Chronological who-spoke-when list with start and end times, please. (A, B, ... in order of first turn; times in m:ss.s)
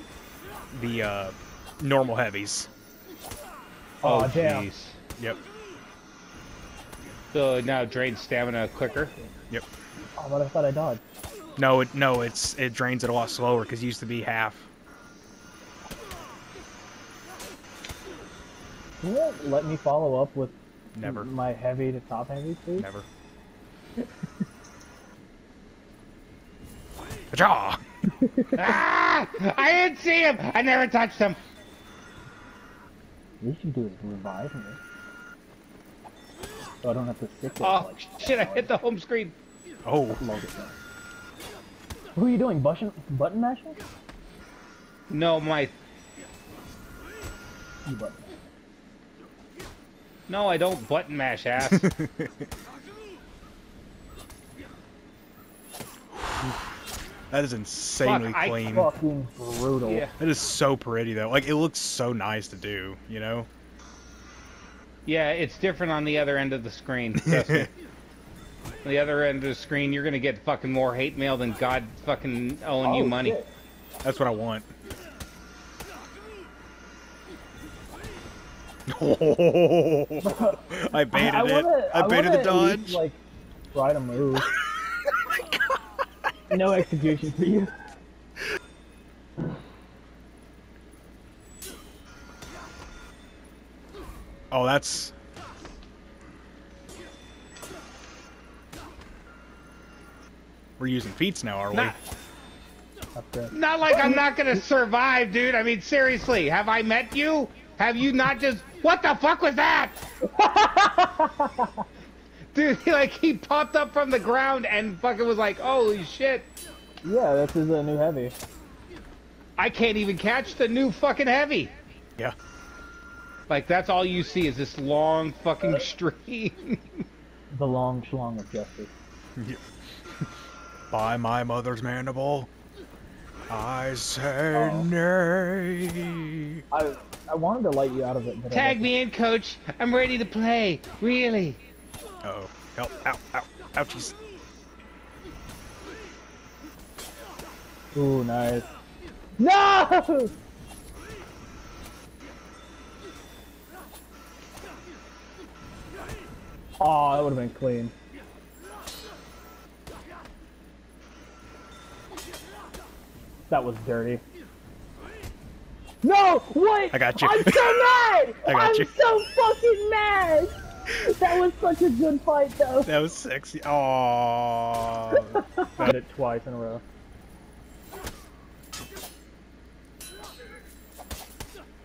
0:00.7-0:02.7 A
0:04.0-0:04.7 B
0:04.0-0:05.0 C
0:07.3-0:09.1 C
0:10.2-0:11.0 B
0:11.6-0:14.7 A
0:19.0-0:22.9 B
0:20.9-0:21.3 A
0:22.8-0:23.0 A
0:27.3-0:27.8 A
0:28.2-0:28.8 B
0:28.5-0:31.4 C
0:33.4-0:34.8 B
0:36.8-0:38.8 B
0:37.6-0:39.3 C
0:39.8-0:40.2 A
0:40.2-0:40.8 B
0:42.2-0:43.8 B
0:45.1-0:45.7 C
0:47.8-0:48.3 B
0:50.3-0:51.9 C
0:51.6-0:52.3 A
0:56.1-0:56.6 A
0:57.3-0:58.9 A
0:58.0-0:58.6 C
0:58.7-1:00.1 B
0:59.8-1:00.1 C
1:00.1-1:03.5 A
1:05.0-1:07.7 C
1:07.1-1:07.7 A
1:08.8-1:13.4 C
1:12.8-1:13.5 B
1:14.0-1:14.7 A
1:18.9-1:23.0 A
1:20.2-1:23.2 B
1:23.7-1:24.5 B
1:26.5-1:27.7 B
1:34.5-1:35.1 A
1:40.8-1:42.0 A
1:41.7-1:42.0 C
1:43.2-1:44.6 B
1:43.5-1:50.0 C
1:50.2-1:51.8 B
1:52.5-1:56.5 C
1:57.0-1:58.3 B
1:59.6-2:01.7 C
2:03.5-2:07.0 C
2:07.5-2:08.9 B
2:10.9-2:12.5 A
2:13.5-2:16.6 A
2:14.5-2:14.9 B
2:16.7-2:18.9 B
2:18.5-2:21.6 C
2:22.2-2:24.1 A
2:27.9-2:28.7 B
2:29.4-2:30.3 B
2:36.8-2:37.9 B
2:43.5-2:44.2 B
2:46.0-2:52.9 B
2:46.9-2:49.0 A
2:52.8-2:56.0 A
2:55.2-2:56.8 B